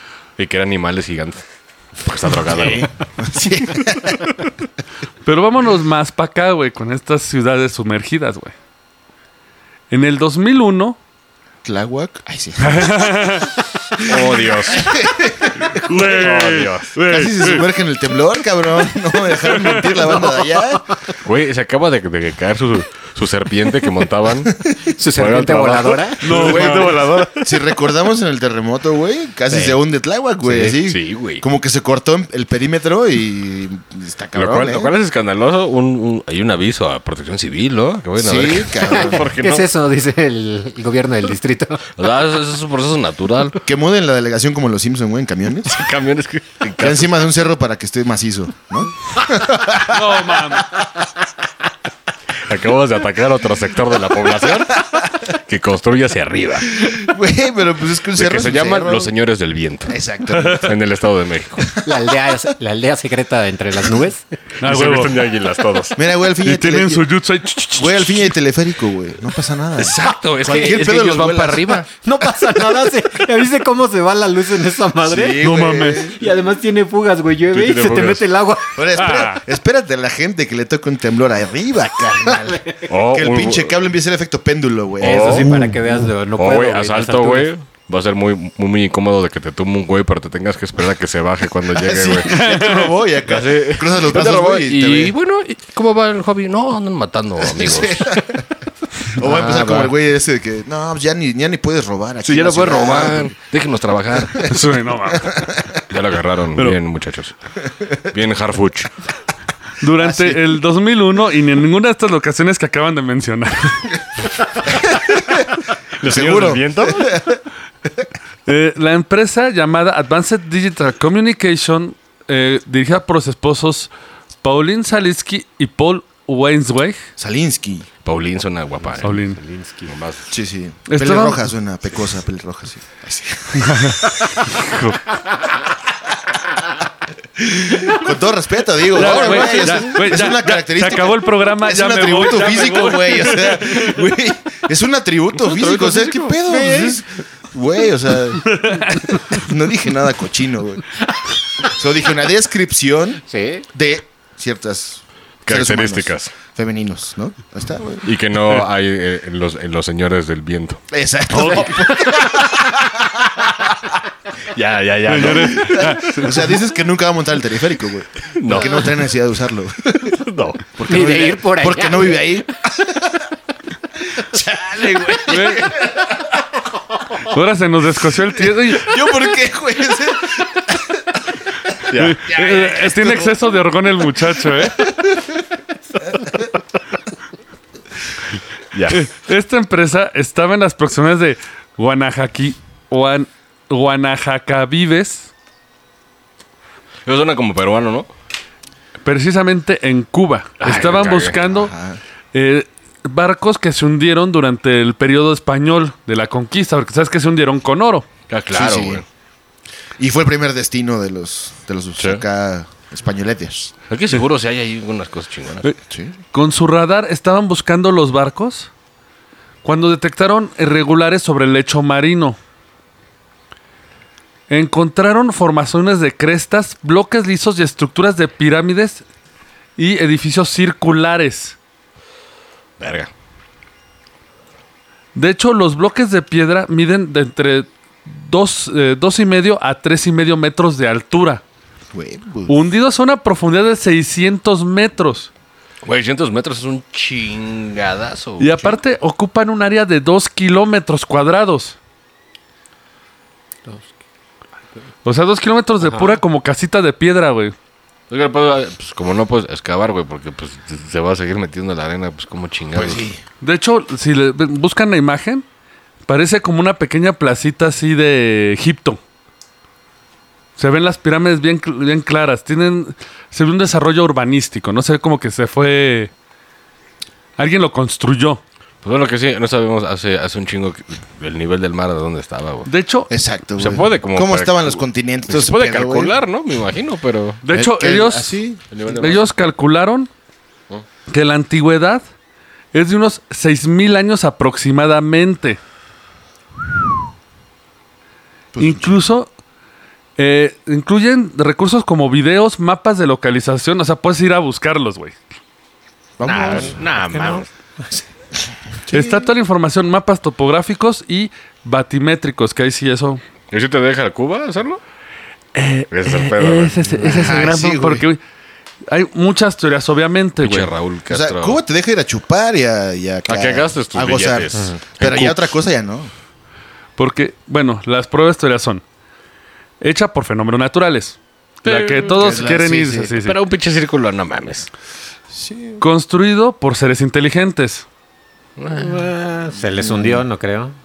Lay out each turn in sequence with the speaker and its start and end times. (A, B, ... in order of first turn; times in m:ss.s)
0:00.4-0:01.4 A
0:02.0-0:02.9 A
0:02.6-0:04.2 B
0:05.2-0:08.5 C
0:09.9-0:11.0 C
0:11.6-0:13.1 B
0:12.6-0:14.0 C
0:14.0-0:15.0 A
0:14.7-0:15.8 B
0:15.6-0:17.6 C
0:15.9-0:16.9 A
0:17.1-0:20.8 B
0:19.5-0:19.9 C
0:21.2-0:27.5 A
0:24.8-0:26.6 D
0:26.2-0:27.4 C
0:26.3-0:34.9 B
0:29.5-0:29.8 D
0:30.4-0:30.8 D
0:30.8-0:31.4 A
0:34.3-0:39.7 A
0:38.2-0:39.3 B
0:38.8-0:41.9 D
0:42.0-0:43.6 A
0:43.6-0:45.8 B
0:45.6-0:47.1 A
0:46.8-0:50.9 B
0:49.8-0:50.7 C
0:52.4-0:56.9 A
0:56.7-0:59.1 B
0:58.1-1:00.0 A
0:59.9-1:00.8 B
1:00.3-1:00.6 C
1:00.6-1:01.7 A
1:01.6-1:01.9 B
1:01.8-1:04.2 D
1:04.6-1:05.1 C
1:04.6-1:06.0 A
1:05.9-1:07.0 B
1:06.4-1:08.3 C
1:07.7-1:12.9 B
1:09.8-1:11.8 A
1:10.4-1:10.8 D
1:12.0-1:15.5 D
1:15.0-1:16.2 B
1:15.4-1:16.0 C
1:16.0-1:18.8 D
1:17.5-1:18.2 A
1:18.7-1:25.8 B
1:18.9-1:19.4 C
1:22.9-1:23.8 A
1:25.0-1:25.6 A
1:25.0-1:27.5 D
1:26.4-1:32.4 A
1:31.7-1:35.1 B
1:32.3-1:32.9 C
1:33.2-1:38.2 A
1:37.4-1:38.4 B
1:39.2-1:43.3 B
1:39.2-1:39.9 A
1:42.2-1:44.5 A
1:44.1-1:44.6 B
1:44.4-1:45.4 C
1:45.1-1:45.8 B
1:45.9-1:47.3 A
1:48.0-1:48.9 A
1:49.8-1:53.9 C
1:50.0-1:50.4 B
1:54.7-1:55.5 B
1:56.0-1:57.2 A
1:56.0-1:57.4 B
1:58.4-2:03.9 C
2:04.4-2:07.0 C
2:07.2-2:07.9 B
2:08.0-2:09.2 A
2:08.8-2:09.9 D
2:09.0-2:09.4 C
2:09.8-2:10.2 A
2:10.3-2:14.5 B
2:10.9-2:11.5 C
2:13.6-2:14.0 C
2:14.6-2:15.0 C
2:17.4-2:30.9 B
2:18.9-2:23.9 C
2:19.0-2:19.7 A
2:25.4-2:26.9 A
2:28.4-2:29.2 C
2:31.6-2:38.0 B
2:33.3-2:33.6 D
2:35.4-2:36.3 A
2:38.0-2:40.8 A
2:40.9-2:43.2 B
2:41.4-2:42.2 D
2:44.5-2:46.0 A
2:45.1-2:46.4 C
2:45.2-2:50.2 B
2:48.4-2:48.9 A
2:50.1-2:51.2 A
2:50.8-2:53.2 B
2:50.9-2:52.2 D
2:54.1-2:56.1 B
2:55.3-2:55.7 C
2:57.2-2:58.9 C
2:58.4-3:01.2 B
3:01.9-3:02.3 A
3:02.0-3:04.9 C
3:02.3-3:03.3 B
3:04.7-3:05.4 B
3:06.1-3:06.4 B
3:08.7-3:09.0 A
3:08.9-3:15.3 C
3:17.0-3:18.1 A
3:19.0-3:21.7 C
3:20.6-3:21.4 A
3:21.4-3:22.0 B
3:22.3-3:28.0 C
3:28.3-3:29.0 A
3:28.5-3:29.0 B
3:30.0-3:33.7 B
3:32.0-3:32.2 A
3:33.9-3:35.6 A
3:35.9-3:36.1 B
3:36.3-3:38.7 C
3:39.6-3:42.4 C
3:44.5-3:49.0 C
3:49.8-3:51.6 C
3:52.8-3:53.1 A
3:55.1-4:01.4 C
4:01.9-4:02.6 B
4:02.5-4:05.3 C
4:05.8-4:08.5 A
4:08.4-4:11.8 C
4:15.0-4:17.5 C
4:18.1-4:23.0 A
4:22.8-4:23.2 B
4:23.4-4:25.4 C
4:26.1-4:29.0 C
4:30.6-4:36.1 C
4:37.4-4:38.4 C
4:38.8-4:42.7 A
4:42.6-4:43.1 C
4:43.1-4:46.1 B
4:43.6-4:47.4 A
4:47.4-4:50.1 C
4:47.5-4:48.6 B
4:48.7-4:49.3 A
4:51.1-4:52.0 C
4:52.7-4:55.6 C
4:58.5-4:59.0 B
4:58.6-4:59.3 C
5:00.2-5:05.2 C
5:06.2-5:06.8 B
5:06.2-5:07.5 A
5:06.4-5:07.4 D
5:08.8-5:09.3 B
5:08.9-5:13.2 C
5:13.5-5:14.8 A
5:15.5-5:18.2 C
5:15.9-5:17.3 A
5:17.0-5:18.0 B
5:18.9-5:20.7 C
5:20.4-5:21.6 A
5:21.1-5:26.1 B
5:23.3-5:25.4 A
5:27.0-5:28.8 C
5:29.8-5:33.4 C
5:31.6-5:32.5 A
5:32.1-5:33.1 B
5:33.2-5:34.7 A
5:35.3-5:35.8 B
5:35.8-5:37.8 C
5:38.6-5:39.1 A
5:38.7-5:40.8 D
5:39.8-5:40.2 B